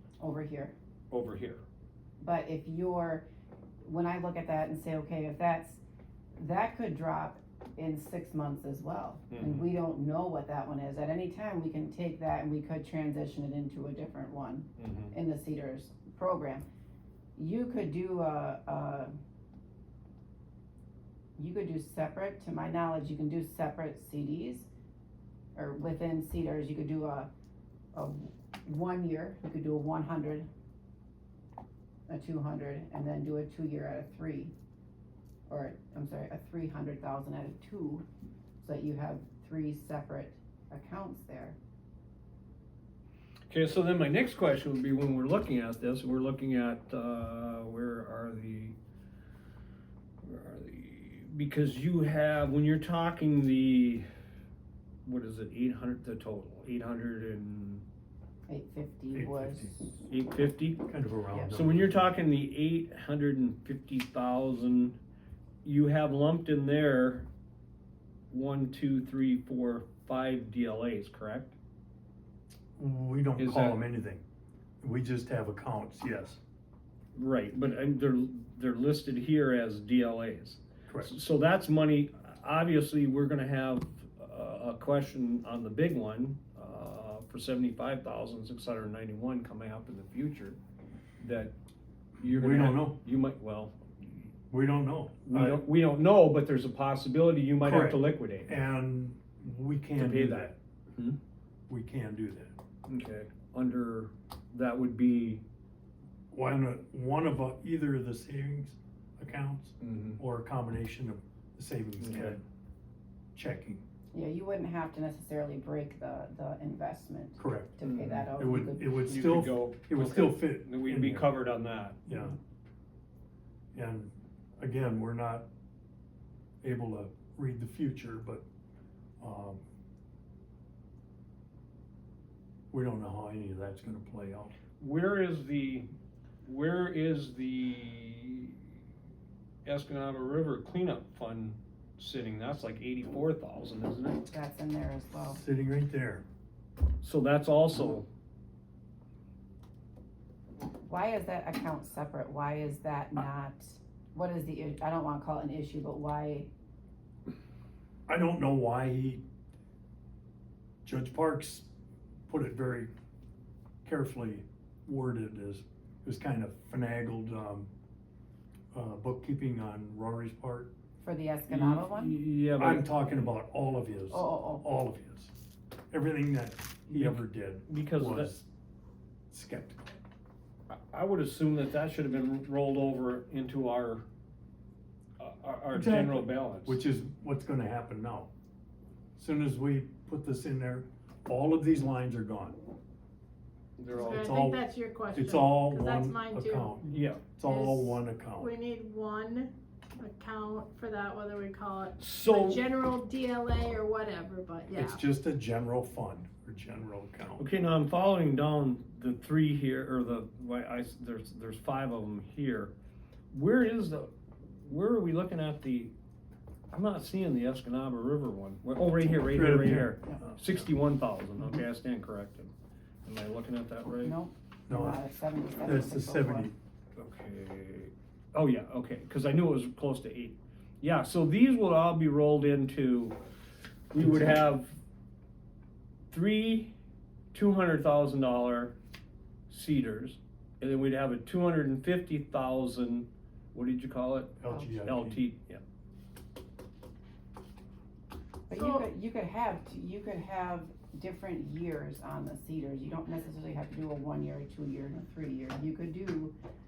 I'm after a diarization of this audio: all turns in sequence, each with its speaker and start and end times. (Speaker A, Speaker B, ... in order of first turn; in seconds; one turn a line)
Speaker A: 0.2-0.7
Speaker B: 1.1-1.6
Speaker A: 2.2-3.3
Speaker A: 3.8-5.8
Speaker A: 6.3-16.7
Speaker B: 9.3-9.7
Speaker B: 14.8-15.1
Speaker A: 17.4-19.1
Speaker A: 21.4-24.7
Speaker A: 25.6-27.3
Speaker A: 27.9-30.5
Speaker A: 32.1-34.5
Speaker A: 35.5-38.0
Speaker A: 38.6-41.6
Speaker B: 43.5-48.7
Speaker B: 50.2-54.0
Speaker B: 55.0-57.8
Speaker A: 58.5-60.0
Speaker C: 59.1-59.8
Speaker B: 60.1-60.8
Speaker C: 60.9-62.0
Speaker B: 61.5-65.0
Speaker B: 65.6-67.3
Speaker B: 68.3-71.5
Speaker C: 72.8-74.2
Speaker B: 73.4-73.9
Speaker C: 74.8-76.4
Speaker B: 77.1-90.6
Speaker B: 91.2-91.5
Speaker B: 92.2-94.3
Speaker C: 92.2-93.0
Speaker C: 94.5-95.6
Speaker B: 95.2-98.6
Speaker C: 97.6-100.6
Speaker B: 100.0-101.2
Speaker C: 101.7-102.5
Speaker B: 102.9-105.4
Speaker C: 106.3-112.4
Speaker B: 109.8-110.2
Speaker B: 112.0-112.4
Speaker C: 113.3-113.8
Speaker A: 114.1-119.0
Speaker C: 117.4-121.3
Speaker B: 117.8-118.3
Speaker B: 118.9-122.0
Speaker C: 122.1-122.4
Speaker C: 123.7-125.5
Speaker C: 126.6-128.4
Speaker C: 129.2-129.6
Speaker C: 132.7-134.5
Speaker B: 134.8-135.9
Speaker B: 136.4-138.6
Speaker B: 139.6-144.2
Speaker A: 144.3-145.4
Speaker C: 145.2-146.2
Speaker B: 147.0-148.1
Speaker A: 150.8-156.5
Speaker C: 158.1-159.2
Speaker C: 160.8-161.7
Speaker C: 162.3-162.9
Speaker C: 163.8-167.7
Speaker C: 168.7-170.7
Speaker A: 171.0-172.2
Speaker B: 171.5-173.3
Speaker C: 172.6-175.3
Speaker A: 174.1-174.6
Speaker C: 175.9-178.5
Speaker B: 176.9-178.3
Speaker C: 179.3-179.8
Speaker B: 180.7-184.0
Speaker B: 185.2-186.8
Speaker C: 185.7-188.3
Speaker C: 189.2-192.6
Speaker B: 193.8-194.3
Speaker D: 193.9-196.8
Speaker C: 194.1-198.5
Speaker B: 196.8-197.2
Speaker D: 197.4-205.0
Speaker B: 202.0-202.6
Speaker C: 204.7-207.5
Speaker B: 207.4-212.7
Speaker B: 213.3-215.9
Speaker B: 216.7-222.5
Speaker C: 219.3-220.6
Speaker B: 223.0-224.2
Speaker A: 224.0-226.5
Speaker C: 224.7-225.0
Speaker C: 225.6-226.5
Speaker B: 226.9-233.2
Speaker B: 233.9-234.8
Speaker C: 234.0-234.3
Speaker B: 236.1-236.7
Speaker B: 237.3-238.7
Speaker B: 239.5-245.6
Speaker C: 244.4-245.2
Speaker A: 248.5-256.3
Speaker D: 248.5-248.9